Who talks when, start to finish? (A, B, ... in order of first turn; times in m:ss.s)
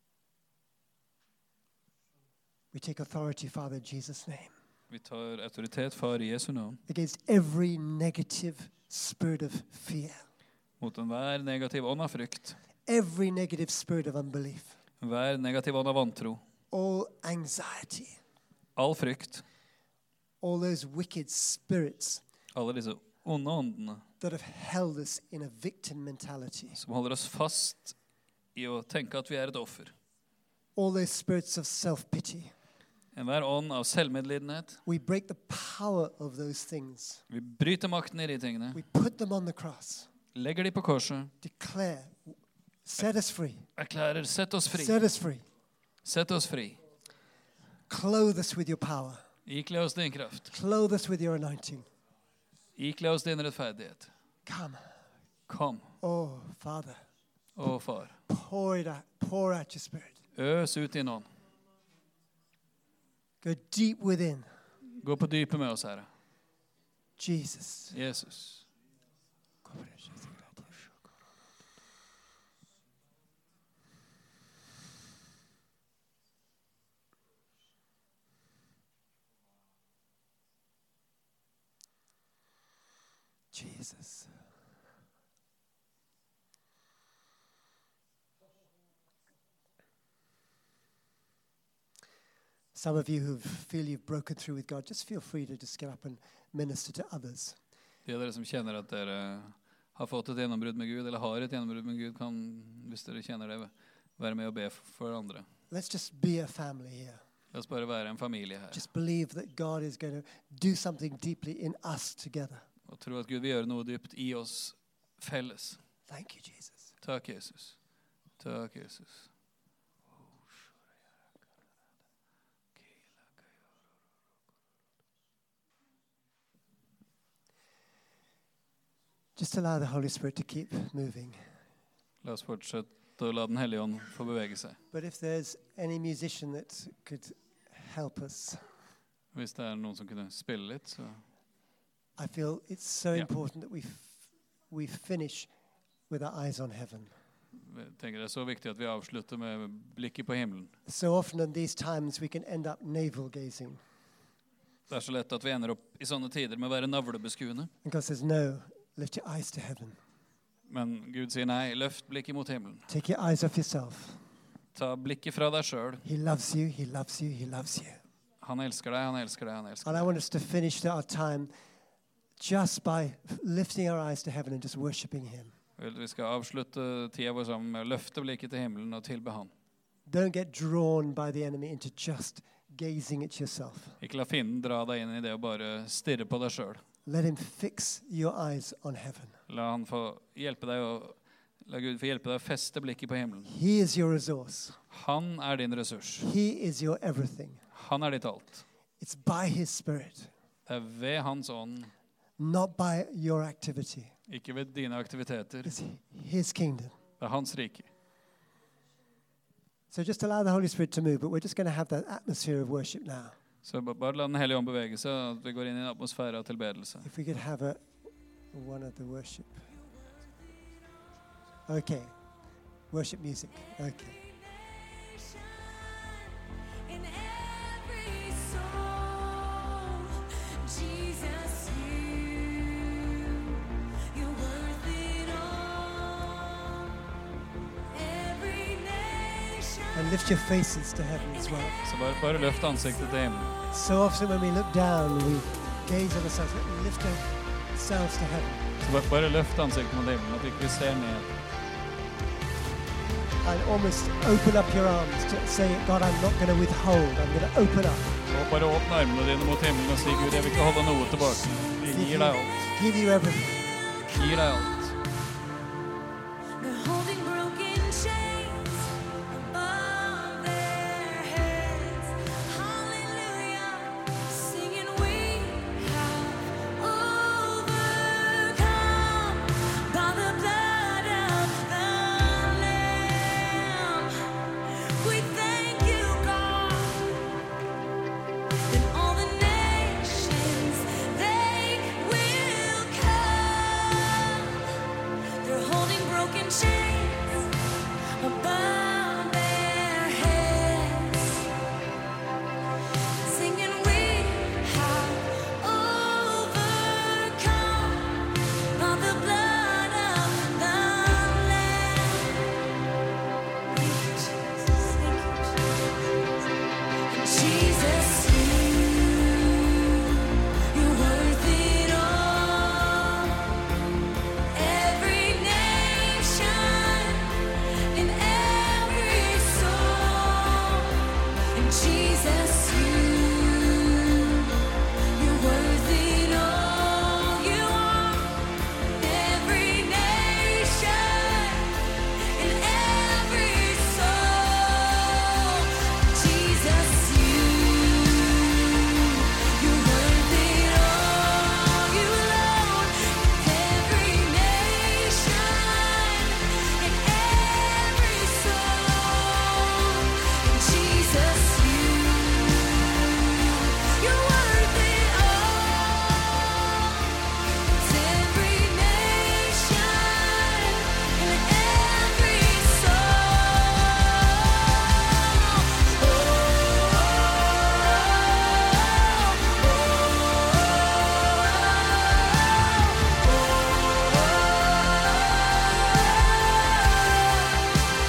0:02.7-0:04.5 A
0:04.9-0:06.8 B
0:06.9-0:10.2 A
0:10.8-0:12.6 B
0:12.9-0:14.8 A
0:15.0-0:16.4 B
0:16.7-0:18.2 A
0:18.8-0:19.4 B
0:20.4-0:22.2 A
0:22.5-0:24.0 B
0:24.2-0:26.8 A
0:26.8-0:28.0 B
0:28.6-0:30.0 B
0:30.8-0:32.5 A
0:33.1-0:34.8 B
0:34.9-0:37.2 A
0:37.3-0:38.8 B
0:38.7-0:40.1 A
0:40.3-0:41.3 B
0:41.4-0:43.7 A
0:43.8-0:45.0 B
0:44.7-0:45.4 A
0:46.0-0:46.8 B
0:47.9-0:49.2 A
0:49.5-0:50.5 B
0:50.5-0:51.9 A
0:52.8-0:54.1 B
0:54.5-0:54.9 A
0:55.5-0:55.9 B
0:56.0-0:57.0 A
0:57.6-0:58.1 B
0:58.3-1:00.2 A
1:00.4-1:01.3 B
1:03.4-1:04.5 A
1:05.0-1:06.1 B
1:07.2-1:08.0 A
1:07.9-1:08.6 B
1:09.6-1:10.7 A
1:23.5-1:24.3 A
1:32.8-1:37.6 A
1:38.1-1:45.4 B
1:45.7-1:47.2 A
1:47.5-1:48.8 B
1:48.7-1:52.6 A
1:52.9-1:55.8 B
1:56.1-1:56.9 A
1:57.0-1:57.8 B
1:58.4-1:59.3 B
2:09.4-2:11.4 A
2:12.2-2:14.8 B
2:14.9-2:18.6 A
2:19.3-2:21.2 B
2:22.2-2:25.5 A
2:26.1-2:27.1 A
2:27.6-2:30.7 B
2:30.9-2:33.8 A
2:34.9-2:37.7 B
2:37.8-2:40.0 A
2:40.7-2:42.8 B
2:42.9-2:44.2 A
2:44.8-2:46.0 B
2:46.0-2:48.0 A
2:48.4-2:50.1 B
2:49.8-2:51.5 A
2:52.4-2:55.5 A
2:55.8-2:59.5 B
3:00.1-3:04.0 A
3:04.0-3:06.8 B
3:07.1-3:09.4 A
3:09.5-3:13.5 B
3:13.5-3:14.8 A
3:14.9-3:16.3 B
3:16.2-3:17.6 A
3:17.7-3:18.6 B
3:19.0-3:20.3 A
3:20.7-3:21.9 B
3:22.4-3:24.1 A
3:24.3-3:25.8 B
3:25.6-3:27.0 A
3:27.2-3:27.9 B
3:29.9-3:33.4 A
3:33.6-3:37.1 B
3:37.0-3:37.9 A
3:38.5-3:39.7 A
3:41.7-3:42.2 A
3:42.9-3:44.2 A
3:44.1-3:53.4 C
3:54.1-3:56.9 C
3:57.9-4:00.3 C
3:59.9-4:01.8 A
4:01.5-4:01.8 C
4:01.8-4:03.6 B
4:03.7-4:08.6 A
4:08.8-4:11.3 B
4:13.4-4:18.2 A
4:18.3-4:22.7 B
4:21.9-4:23.7 A
4:24.0-4:24.4 C
4:24.1-4:25.0 B
4:26.6-4:47.2 C
4:48.7-4:54.6 C
4:55.4-4:57.6 C
4:58.2-5:01.5 C
5:03.2-5:12.6 C
5:13.7-5:16.1 C
5:17.1-5:23.6 C
5:24.5-6:27.5 C